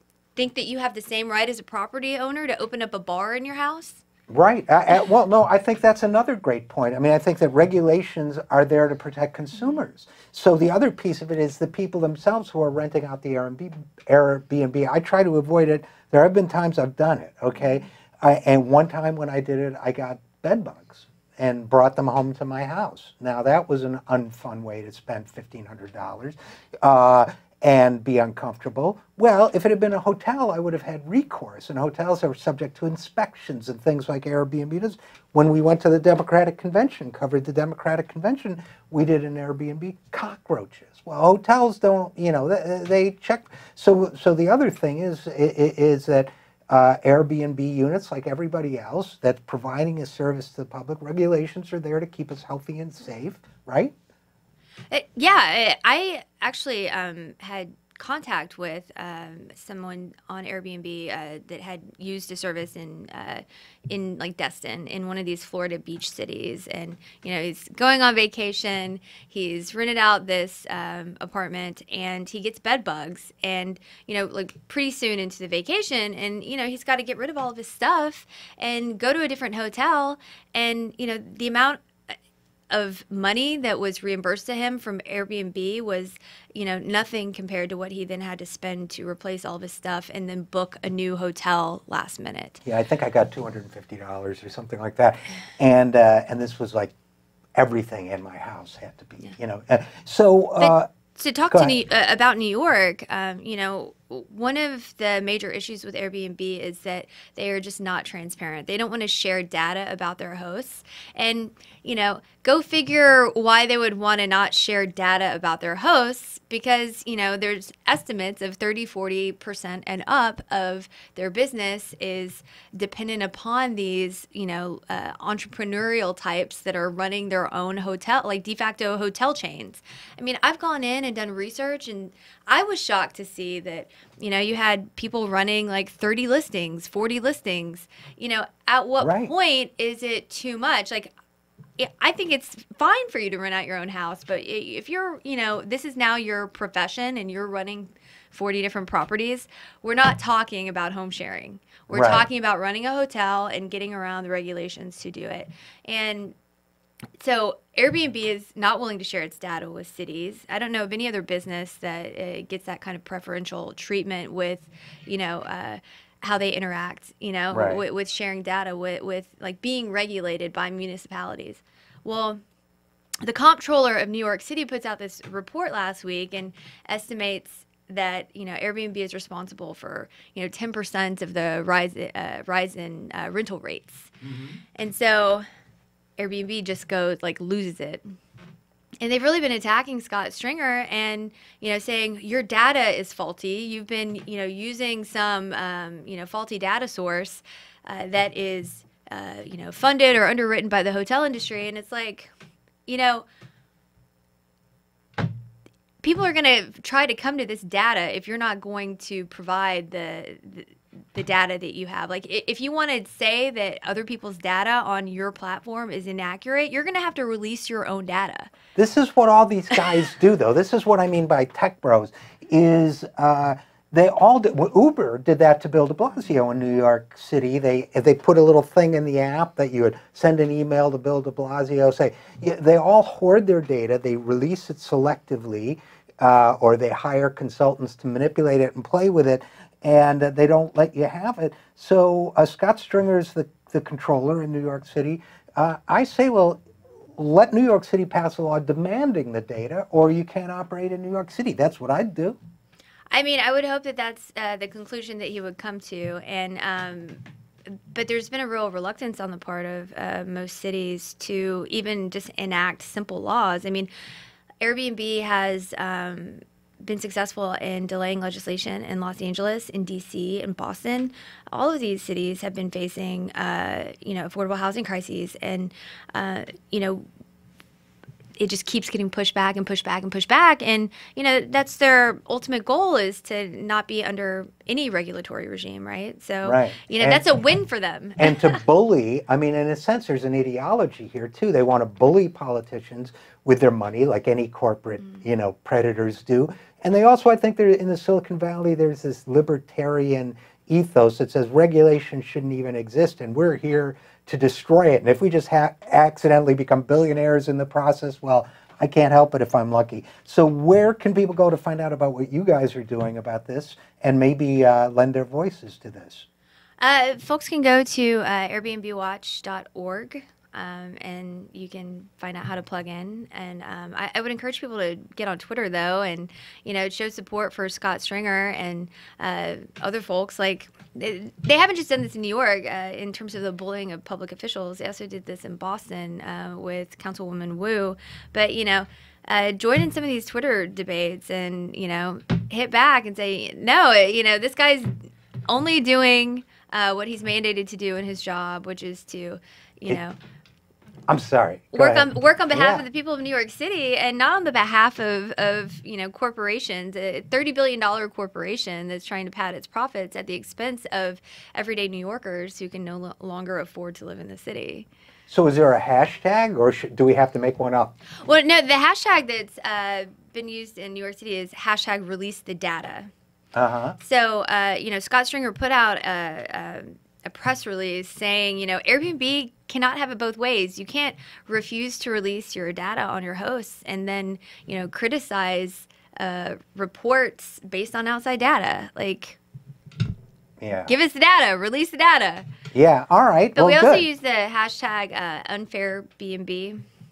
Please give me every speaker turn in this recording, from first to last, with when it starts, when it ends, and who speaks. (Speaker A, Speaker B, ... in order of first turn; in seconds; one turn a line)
Speaker A: 0.3-4.0
Speaker B: 4.3-53.9
Speaker A: 54.9-81.8
Speaker A: 82.7-92.6
Speaker B: 92.7-96.9
Speaker B: 97.5-100.9
Speaker A: 100.6-141.1
Speaker B: 101.5-101.8
Speaker B: 139.0-139.3
Speaker A: 141.8-156.3
Speaker B: 151.9-152.2
Speaker A: 157.2-172.4
Speaker B: 167.5-167.8
Speaker A: 173.2-184.1
Speaker B: 184.2-184.6
Speaker A: 184.8-185.4
Speaker A: 186.2-188.0
Speaker A: 189.0-202.3
Speaker A: 202.9-203.2
Speaker A: 206.0-218.5
Speaker B: 218.8-246.6
Speaker B: 247.2-252.4
Speaker A: 253.1-263.9
Speaker A: 264.6-277.1
Speaker A: 278.4-288.4
Speaker B: 286.4-287.2
Speaker B: 288.2-316.2
Speaker A: 316.8-344.9
Speaker A: 345.5-350.2
Speaker B: 351.1-352.9
Speaker A: 351.7-364.9
Speaker B: 365.3-367.9
Speaker A: 368.2-373.1
Speaker B: 373.5-373.9
Speaker A: 374.0-389.4
Speaker B: 390.6-390.9
Speaker A: 390.8-392.5
Speaker B: 392.7-394.0
Speaker A: 393.6-396.8